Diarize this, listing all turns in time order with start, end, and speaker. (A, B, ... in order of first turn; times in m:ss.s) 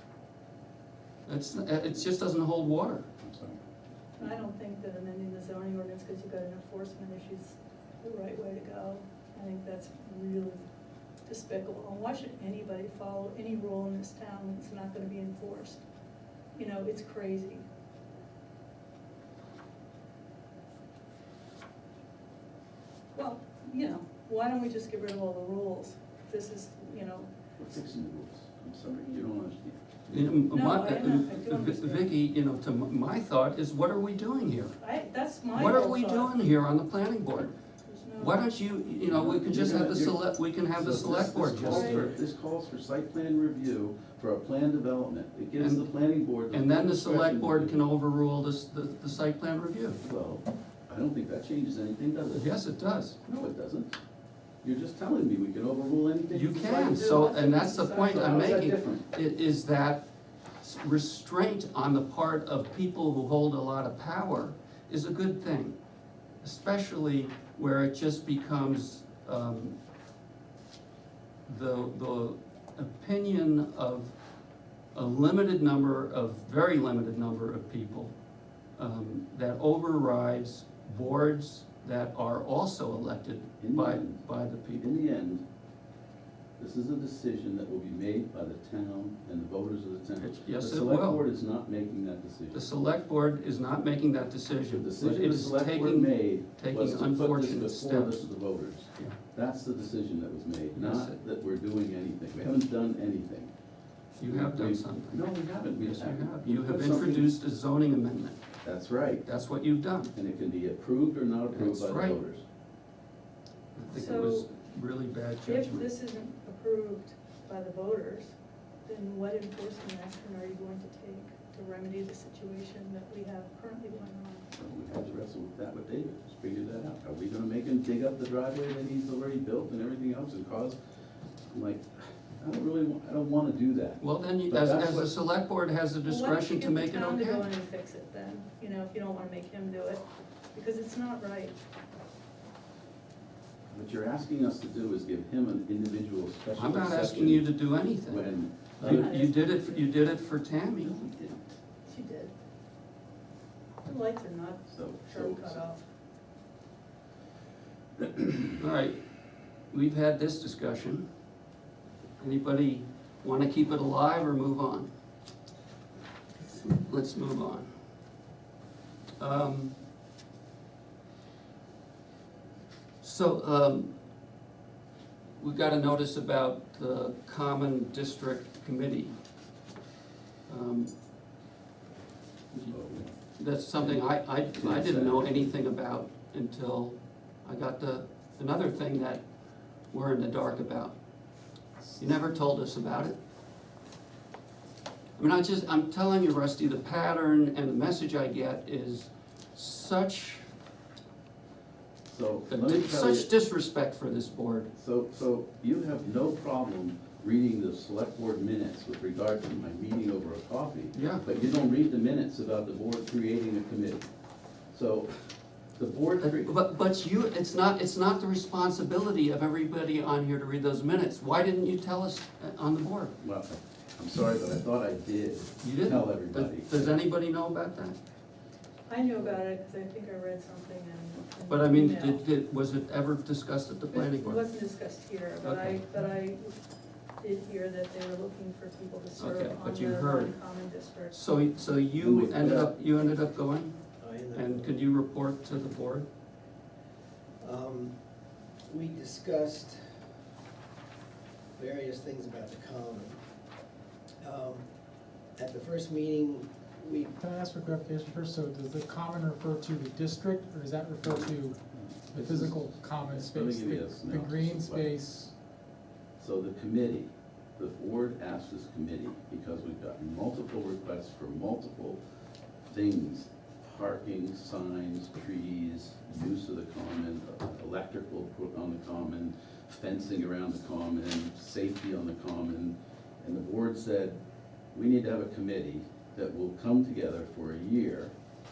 0:01.2-0:03.1 A
0:03.2-0:03.6 B
0:04.2-0:10.6 C
0:11.2-0:15.8 C
0:16.5-0:17.6 C
0:23.1-0:27.3 C
0:27.6-0:29.8 B
0:30.1-0:34.8 A
0:30.5-0:32.1 C
0:34.8-0:36.3 C
0:35.5-0:37.5 A
0:37.8-0:38.4 C
0:38.2-0:42.1 A
0:39.0-0:40.2 B
0:40.7-0:47.8 B
0:41.6-0:42.1 C
0:45.6-0:45.9 A
0:46.5-0:50.0 A
0:50.0-0:52.5 B
0:52.3-0:53.2 A
0:53.2-0:54.0 B
0:54.6-0:57.3 B
0:56.3-1:00.0 A
0:56.9-0:58.5 C
0:57.9-0:59.0 B
1:00.6-1:05.8 A
1:06.4-1:09.8 A
1:11.5-1:14.2 A
1:14.9-1:18.1 A
1:18.8-1:24.9 A
1:23.6-1:25.4 B
1:26.6-1:32.6 B
1:30.2-1:31.2 A
1:32.5-1:38.3 A
1:34.7-1:43.5 B
1:40.7-1:41.2 A
1:44.2-1:48.4 A
1:44.2-1:47.3 B
1:48.6-1:49.3 B
1:49.2-1:50.1 A
1:50.1-1:52.4 B
1:51.5-1:52.2 A
1:53.7-1:55.9 A
1:53.9-1:54.5 C
1:55.4-1:58.3 C
1:58.8-2:04.4 C
2:04.5-2:10.8 B
2:11.5-2:15.1 B
2:14.0-2:17.4 A
2:16.0-2:21.6 C
2:23.7-2:27.5 B
2:26.6-2:28.2 A
2:28.1-2:29.2 B
2:28.8-2:29.9 C
2:28.8-2:31.0 A
2:30.8-2:31.5 B
2:31.8-2:32.3 C
2:33.8-2:35.8 C
2:34.7-2:35.6 B
2:38.0-2:38.5 B
2:38.6-2:39.0 A
2:39.7-2:41.0 A
2:42.2-2:44.9 A
2:46.5-2:47.7 A
2:49.2-2:49.8 A
2:53.0-2:53.9 A
2:55.4-2:59.2 A
3:00.5-3:00.9 A
3:02.7-3:03.1 B
3:03.3-3:09.2 A
3:03.8-3:05.5 B
3:09.9-3:11.0 A
3:12.0-3:13.2 A
3:15.2-3:20.4 A
3:22.1-3:23.3 B
3:22.5-3:24.7 A
3:24.8-3:34.1 B
3:30.9-3:31.2 A
3:34.7-3:36.5 B
3:36.2-3:43.1 A
3:43.2-3:47.0 B
3:45.6-3:48.0 A
3:48.9-3:52.2 C
3:51.5-3:54.4 A
3:53.9-3:56.6 C
3:55.4-3:55.8 A
3:57.2-4:01.2 C
3:59.2-4:00.3 A
4:01.1-4:03.8 A
4:02.0-4:02.7 B
4:04.0-4:04.7 D
4:04.3-4:06.1 A
4:07.4-4:07.9 D
4:08.7-4:09.8 D
4:11.6-4:13.2 D
4:14.2-4:14.6 D
4:15.3-4:17.1 D
4:17.2-4:25.3 E
4:21.0-4:24.9 B
4:26.2-4:32.0 B
4:32.7-4:44.2 B
4:44.7-4:48.1 B